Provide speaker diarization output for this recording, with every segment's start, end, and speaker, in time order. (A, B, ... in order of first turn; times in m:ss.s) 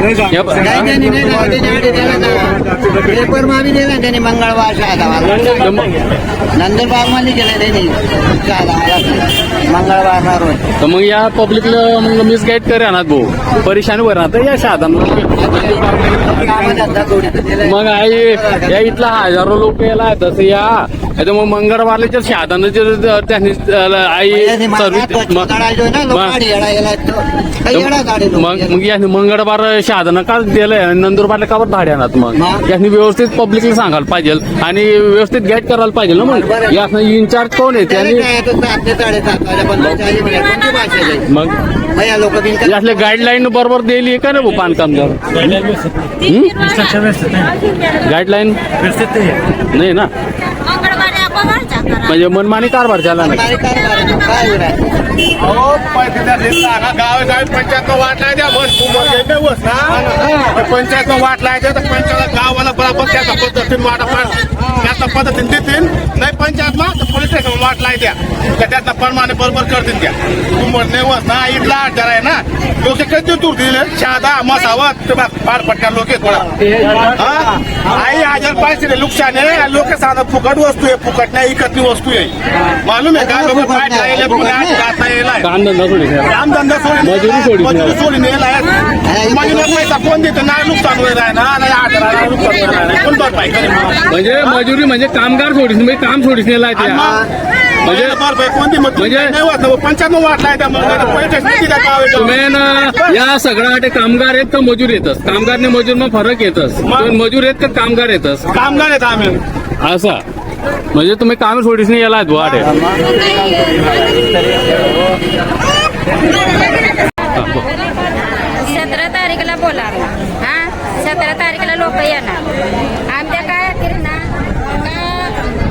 0:00.3-0:00.7 A
0:00.6-0:05.9 B
0:06.5-0:10.6 B
0:10.8-0:15.4 A
0:15.4-0:18.7 B
0:17.6-0:25.5 A
0:24.3-0:28.8 B
0:26.1-0:26.4 A
0:27.7-0:38.2 A
0:32.4-0:32.6 B
0:36.2-0:36.9 B
0:37.8-0:41.2 B
0:41.3-0:41.6 A
0:41.9-0:42.9 B
0:42.6-0:47.5 A
0:48.0-0:50.1 A
0:50.7-0:52.1 C
0:52.1-0:53.4 A
0:53.2-0:54.8 B
0:55.4-1:25.5 D
1:23.1-1:24.8 B
1:25.4-1:26.4 A
1:26.2-1:34.6 D
1:27.0-1:28.0 A
1:29.0-1:29.8 B
1:34.1-1:37.1 A
1:36.7-1:37.3 D
1:37.8-1:43.2 D
1:37.8-1:38.2 A
1:39.0-1:39.4 A
1:42.2-1:48.4 A
1:46.8-1:47.2 D
1:48.5-1:49.4 D
1:49.8-1:50.2 A
1:50.9-1:52.8 A
1:53.3-1:53.9 C
1:58.4-2:02.4 C
2:03.1-2:05.6 C